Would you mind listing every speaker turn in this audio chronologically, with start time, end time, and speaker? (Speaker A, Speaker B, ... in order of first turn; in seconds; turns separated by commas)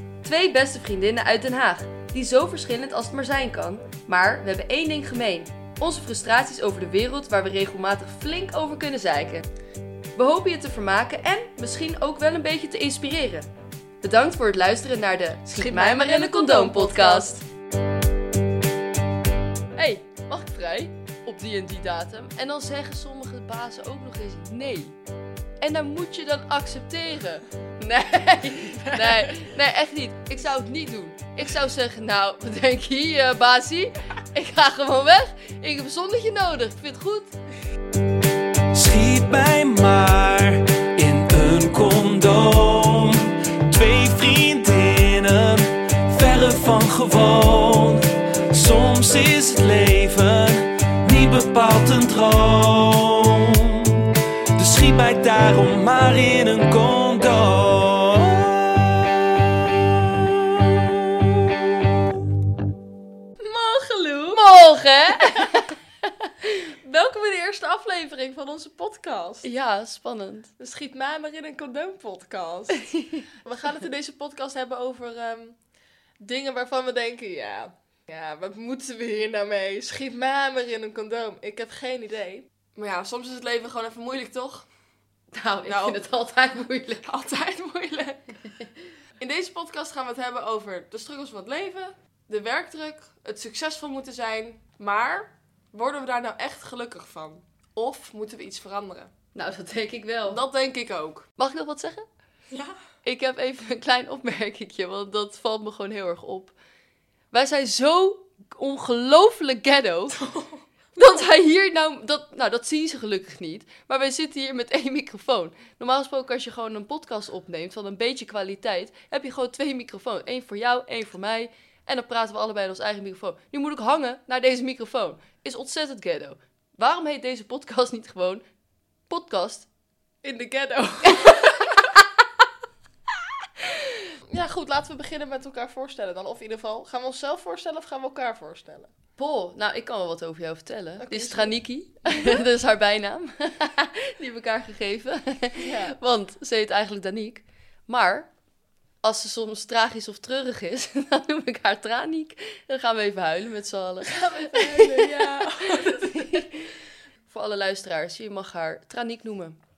Speaker A: 0.2-9.4, Speaker A: 10.2-13.5, Speaker A: 14.0-17.4, Speaker B: 15.5-17.4, Speaker A: 19.8-24.9, Speaker A: 25.6-37.3, Speaker B: 28.6-29.5, Speaker C: 38.7-61.4, Speaker B: 63.4-64.4, Speaker A: 64.3-66.5, Speaker B: 65.1-65.7, Speaker B: 66.7-69.5, Speaker A: 69.4-70.5, Speaker B: 70.6-75.6, Speaker A: 72.8-73.3, Speaker B: 76.2-84.7, Speaker A: 85.3-87.2, Speaker B: 85.6-86.0, Speaker B: 87.0-88.4, Speaker B: 89.2-99.1, Speaker A: 99.3-100.4, Speaker B: 100.3-101.3, Speaker A: 101.4-102.0, Speaker B: 102.5-102.8, Speaker A: 103.0-106.5, Speaker A: 107.3-110.3, Speaker B: 110.2-111.2, Speaker A: 111.0-128.4, Speaker A: 129.1-129.7, Speaker B: 130.2-131.7, Speaker A: 131.1-131.7, Speaker A: 133.6-134.0, Speaker B: 134.2-138.9, Speaker A: 139.2-148.3, Speaker B: 141.0-142.4, Speaker B: 145.6-146.0, Speaker A: 149.0-159.6, Speaker B: 154.0-156.4